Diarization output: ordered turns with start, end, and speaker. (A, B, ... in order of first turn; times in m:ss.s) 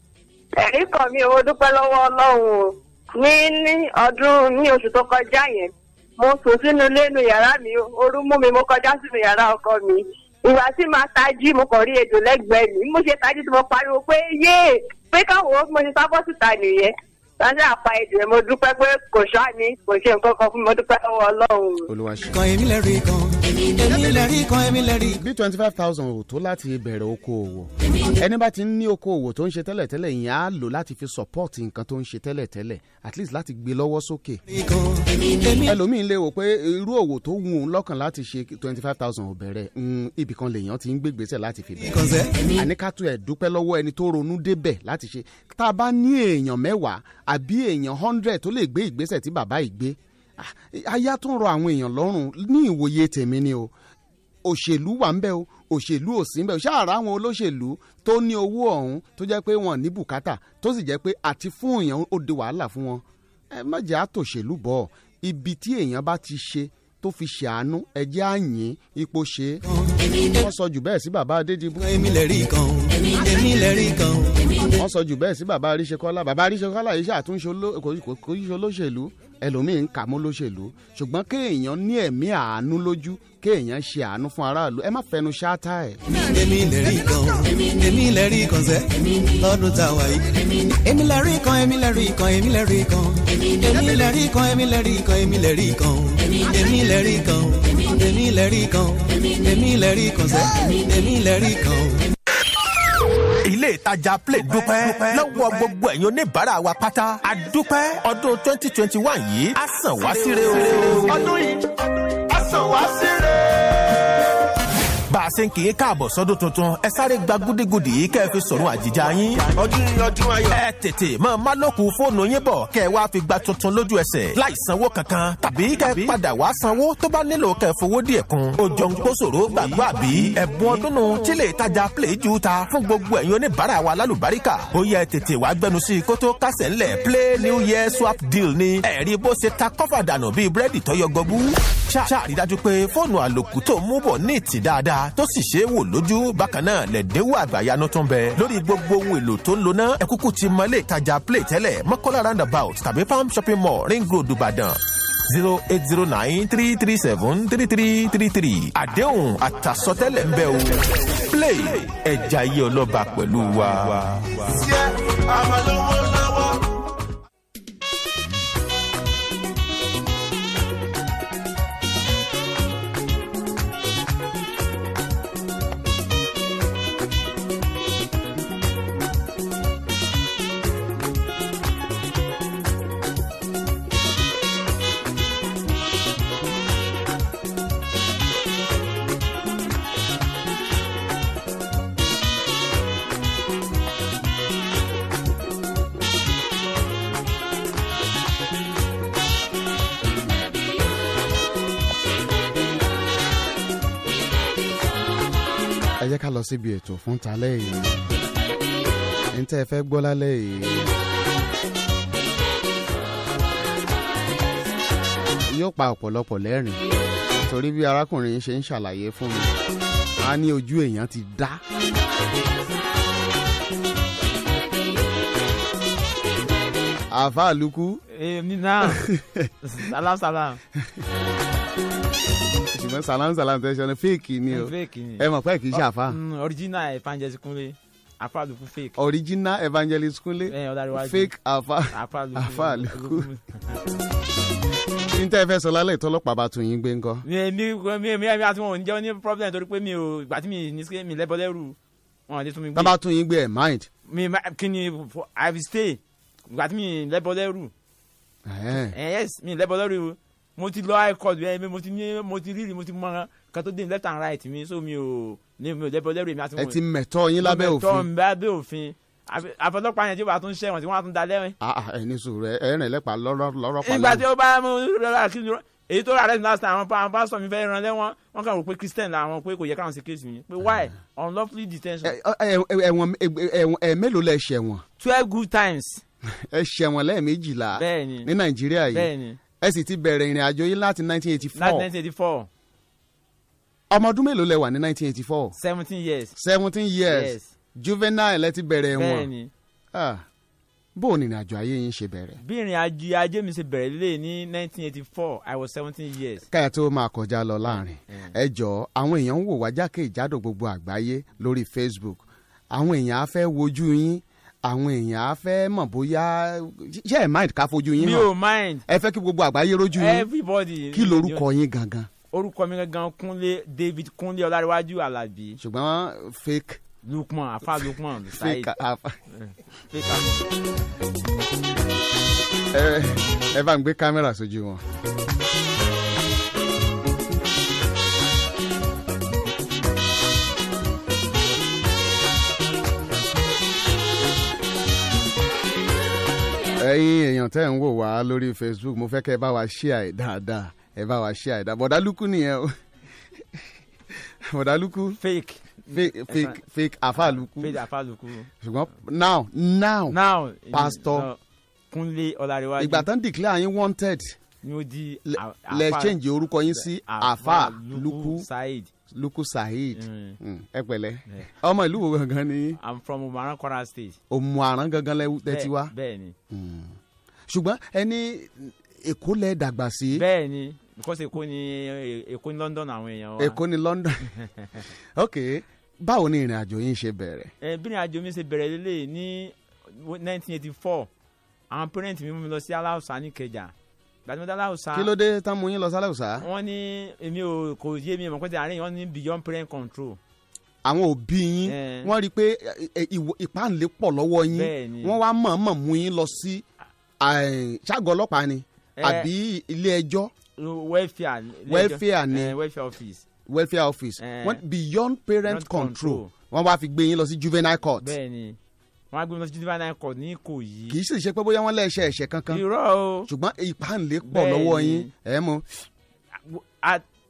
0:00.6-0:21.9 A
0:21.9-0:22.4 B
0:22.3-0:25.2 C
0:25.2-0:34.4 B
0:34.5-0:35.8 C
0:35.6-0:42.0 B
0:41.8-0:42.6 C
0:42.5-0:53.7 B
0:54.4-1:09.6 B
1:09.6-1:10.5 C
1:10.4-1:11.9 B
1:11.8-1:14.7 C
1:14.8-1:26.0 B
1:26.1-1:42.1 C
1:43.4-1:51.3 D
1:55.1-2:44.6 D
3:26.0-3:28.0 B
3:29.3-3:30.9 B
3:35.5-3:36.8 B
3:37.4-3:39.5 B
3:40.2-3:41.6 B
3:47.1-3:48.0 B
3:48.1-3:49.1 E
3:48.8-3:49.5 B
3:49.6-3:50.6 E
3:52.7-3:56.2 B
3:54.5-3:59.0 E
3:59.0-4:03.3 B
4:00.5-4:01.3 E
4:01.9-4:03.8 E
4:05.1-4:07.3 B
4:07.2-4:11.8 E
4:12.3-4:12.9 E
4:12.8-4:13.9 B
4:14.1-4:17.7 E
4:18.5-4:19.0 B
4:18.7-4:26.8 E
4:26.6-4:28.1 B
4:27.4-4:31.6 E
4:31.6-4:34.2 B
4:33.8-4:42.2 E
4:40.6-4:40.9 B
4:42.0-4:44.8 B
4:45.0-4:46.0 E
4:46.3-4:51.9 B
4:47.8-4:48.3 E
4:48.9-4:49.4 E
4:51.6-4:52.5 E
4:53.9-4:55.6 B
4:55.6-4:56.4 E
4:56.4-4:59.3 B
4:57.1-4:57.5 E
4:58.9-4:59.5 E
4:59.9-5:00.2 B
5:01.0-5:02.4 B
5:02.4-5:06.5 E
5:06.5-5:18.3 B
5:07.7-5:08.3 E
5:18.0-5:18.8 E
5:18.9-5:20.3 B
5:20.0-5:21.5 E
5:20.9-5:22.1 B
5:22.3-5:25.6 E
5:25.6-5:26.8 B
5:27.0-5:28.7 E
5:28.3-5:29.2 B
5:29.3-5:30.4 E
5:32.7-5:34.8 B
5:46.8-5:52.8 B
5:54.4-5:55.2 B
5:55.2-5:56.6 E
5:55.9-5:57.8 B
5:57.2-5:58.5 E
5:58.6-6:00.2 B
6:00.1-6:01.4 E
6:00.7-6:01.3 B
6:01.9-6:03.1 E
6:02.8-6:04.4 B
6:04.6-6:06.2 E
6:05.3-6:08.5 B
6:06.8-6:08.9 E
6:09.1-6:12.8 B
6:10.0-6:10.4 E
6:12.8-6:14.2 E
6:14.3-6:15.9 B
6:15.5-6:16.4 E
6:16.5-6:17.0 B
6:17.5-6:20.2 B
6:20.1-6:23.6 E
6:23.4-6:24.3 B
6:24.4-6:24.7 E
6:25.2-6:27.5 B
6:27.6-6:31.1 E
6:31.7-6:33.7 E
6:34.2-6:35.1 E
6:34.9-6:36.5 B
6:36.4-6:40.2 E
6:40.8-6:46.7 B
6:41.7-6:42.1 E
6:44.5-6:45.2 E
6:47.2-6:50.3 B
6:49.0-6:49.3 E
6:50.6-6:53.3 E
6:51.7-6:52.6 B
6:53.5-6:58.1 B
6:54.2-6:54.6 E
6:55.4-6:56.3 E
6:58.0-6:58.6 E
6:59.1-7:01.0 E
7:00.9-7:02.6 B
7:02.5-7:03.3 E
7:03.3-7:05.8 B
7:04.2-7:05.1 E
7:06.4-7:07.0 E